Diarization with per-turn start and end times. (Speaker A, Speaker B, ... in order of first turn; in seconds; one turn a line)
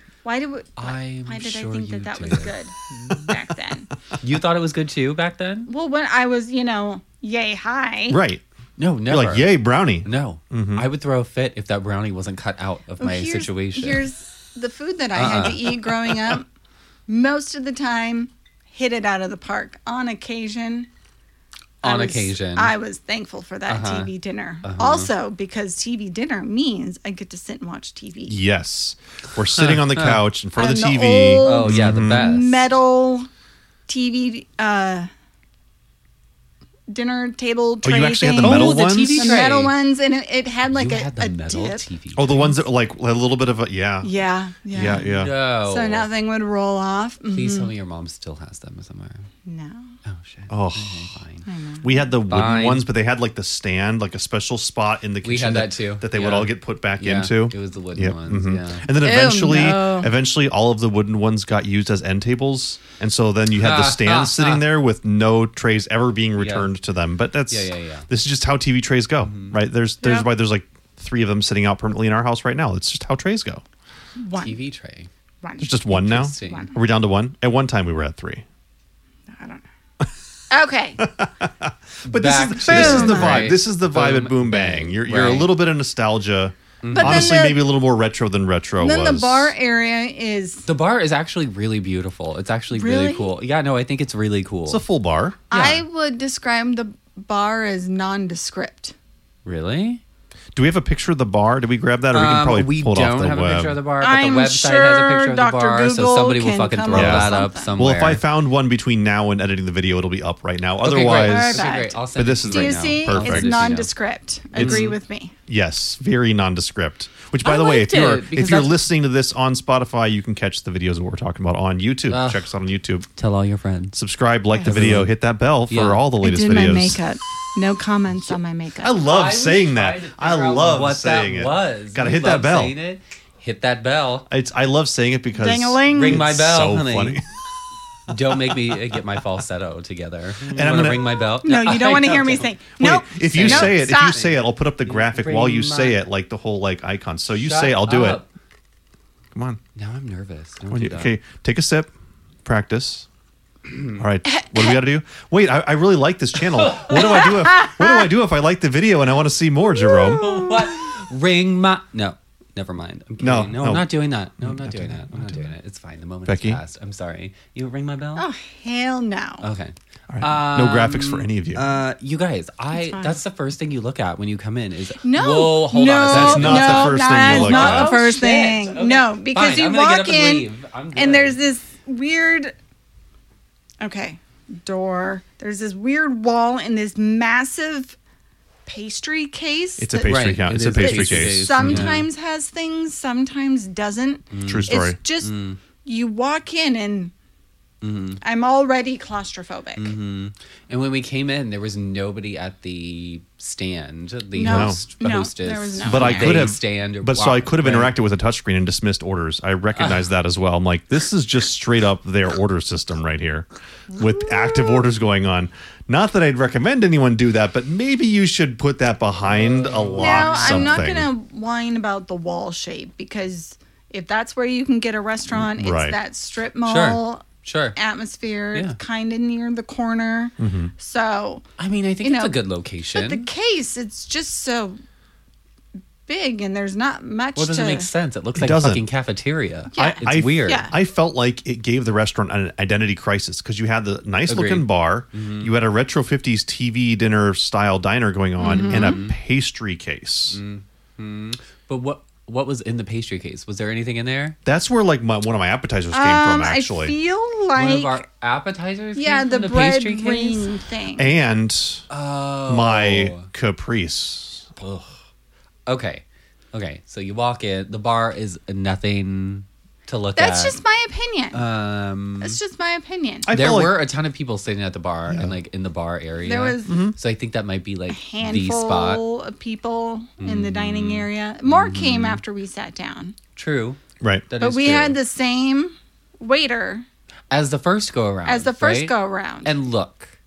Speaker A: 0.2-3.9
Speaker B: 0.8-3.3
Speaker B: 4.2-5.7
Speaker A: 5.7-8.2
Speaker C: 8.1-8.4
Speaker B: 8.8-14.0
Speaker C: 9.1-10.8
Speaker A: 13.0-16.4
Speaker B: 15.1-16.1
Speaker A: 17.1-20.9
Speaker B: 21.8-22.7
Speaker A: 21.8-28.4
Speaker B: 23.7-24.1
Speaker B: 24.6-25.1
Speaker C: 28.2-32.3
Speaker B: 29.5-30.2
Speaker A: 30.6-33.3
Speaker B: 31.4-32.7
Speaker A: 33.9-35.1
Speaker A: 36.9-41.8
Speaker C: 37.8-39.4
Speaker B: 38.4-39.7
Speaker B: 40.7-42.5
Speaker C: 42.1-44.1
Speaker A: 44.0-45.1
Speaker C: 44.7-45.3
Speaker B: 44.8-46.1
Speaker A: 45.6-47.7
Speaker B: 47.3-49.3
Speaker A: 49.5-49.9
Speaker B: 50.0-51.5
Speaker C: 50.5-51.2
Speaker A: 51.4-52.0
Speaker C: 51.8-73.6
Speaker B: 52.3-52.9
Speaker B: 55.2-58.9
Speaker A: 59.0-60.1
Speaker B: 63.5-64.6
Speaker B: 66.4-66.7
Speaker B: 67.5-68.1
Speaker B: 69.2-69.6
Speaker A: 70.0-70.3
Speaker A: 74.2-74.6
Speaker B: 74.3-75.1
Speaker A: 75.4-76.7
Speaker C: 75.6-78.4
Speaker B: 75.9-76.7
Speaker A: 79.3-79.6
Speaker A: 80.5-81.0
Speaker C: 81.0-89.5
Speaker B: 82.0-85.5
Speaker A: 82.7-83.5
Speaker B: 86.8-87.4
Speaker A: 86.9-87.7
Speaker A: 88.8-90.6
Speaker B: 90.7-94.8
Speaker A: 92.7-93.3
Speaker C: 94.7-95.4
Speaker A: 95.5-98.9
Speaker B: 95.5-95.8
Speaker B: 99.4-100.0
Speaker C: 100.5-103.8
Speaker B: 102.1-108.2
Speaker A: 104.0-107.7
Speaker C: 106.9-113.5
Speaker B: 110.8-113.9
Speaker A: 111.0-115.3
Speaker C: 114.5-114.9
Speaker B: 114.5-115.0
Speaker C: 115.5-123.0
Speaker B: 117.4-118.8
Speaker B: 122.1-122.5
Speaker B: 123.2-124.0
Speaker C: 123.9-127.0
Speaker B: 124.6-125.1
Speaker B: 125.7-126.0
Speaker A: 126.2-129.0
Speaker C: 128.8-132.8
Speaker B: 129.0-134.3
Speaker C: 134.3-137.2
Speaker A: 135.3-136.2
Speaker B: 135.9-137.2
Speaker B: 138.1-142.6
Speaker C: 138.1-139.0
Speaker C: 140.5-141.2
Speaker A: 141.4-144.2
Speaker C: 142.8-148.2
Speaker B: 143.2-146.0
Speaker B: 147.4-148.3
Speaker C: 149.3-149.6
Speaker B: 149.7-151.1
Speaker C: 150.7-151.9
Speaker C: 152.4-153.1
Speaker B: 153.7-154.0
Speaker C: 154.0-160.3
Speaker A: 154.3-154.8
Speaker B: 156.5-157.3
Speaker A: 156.9-158.1
Speaker A: 159.7-160.9
Speaker B: 160.0-168.2
Speaker C: 163.2-163.9
Speaker C: 164.4-165.5
Speaker C: 166.2-166.6
Speaker A: 168.2-169.4
Speaker B: 169.4-181.4
Speaker C: 170.1-171.6
Speaker A: 172.7-173.2
Speaker A: 175.0-182.5
Speaker C: 176.1-178.0
Speaker A: 183.8-188.0
Speaker A: 188.7-195.3
Speaker C: 189.8-192.0
Speaker B: 190.0-192.1
Speaker B: 194.3-195.6
Speaker C: 194.4-195.0
Speaker A: 195.8-197.1
Speaker B: 197.8-198.2
Speaker A: 198.2-199.9
Speaker B: 199.8-207.9
Speaker A: 204.3-206.5
Speaker C: 204.4-204.8
Speaker C: 205.8-221.1
Speaker B: 209.8-210.1
Speaker A: 213.9-214.8
Speaker B: 219.3-221.0
Speaker A: 220.0-227.2
Speaker C: 225.3-226.0
Speaker B: 226.6-227.8
Speaker A: 227.8-231.4
Speaker C: 230.4-230.7
Speaker B: 231.6-233.3
Speaker A: 232.0-232.4
Speaker A: 232.9-234.8
Speaker A: 236.1-237.9
Speaker B: 237.3-240.7
Speaker C: 238.3-238.8
Speaker A: 239.7-240.7
Speaker C: 239.8-250.4
Speaker B: 244.3-245.5
Speaker A: 248.4-249.0
Speaker B: 248.4-249.2
Speaker B: 250.3-254.4
Speaker C: 254.4-256.9
Speaker A: 255.9-258.0
Speaker B: 257.5-260.5
Speaker A: 258.9-261.1
Speaker C: 260.9-261.9
Speaker B: 261.9-263.3
Speaker C: 262.5-264.5
Speaker B: 264.6-264.9
Speaker B: 265.7-270.6
Speaker A: 270.1-271.4
Speaker B: 271.3-272.4
Speaker A: 272.2-273.3
Speaker C: 273.3-273.8
Speaker B: 273.3-279.0
Speaker A: 276.2-276.9
Speaker C: 276.6-276.9
Speaker A: 277.9-283.1
Speaker B: 280.2-282.2
Speaker B: 283.3-285.0
Speaker C: 284.0-284.2
Speaker A: 284.4-286.9
Speaker B: 287.3-290.1
Speaker A: 288.2-289.6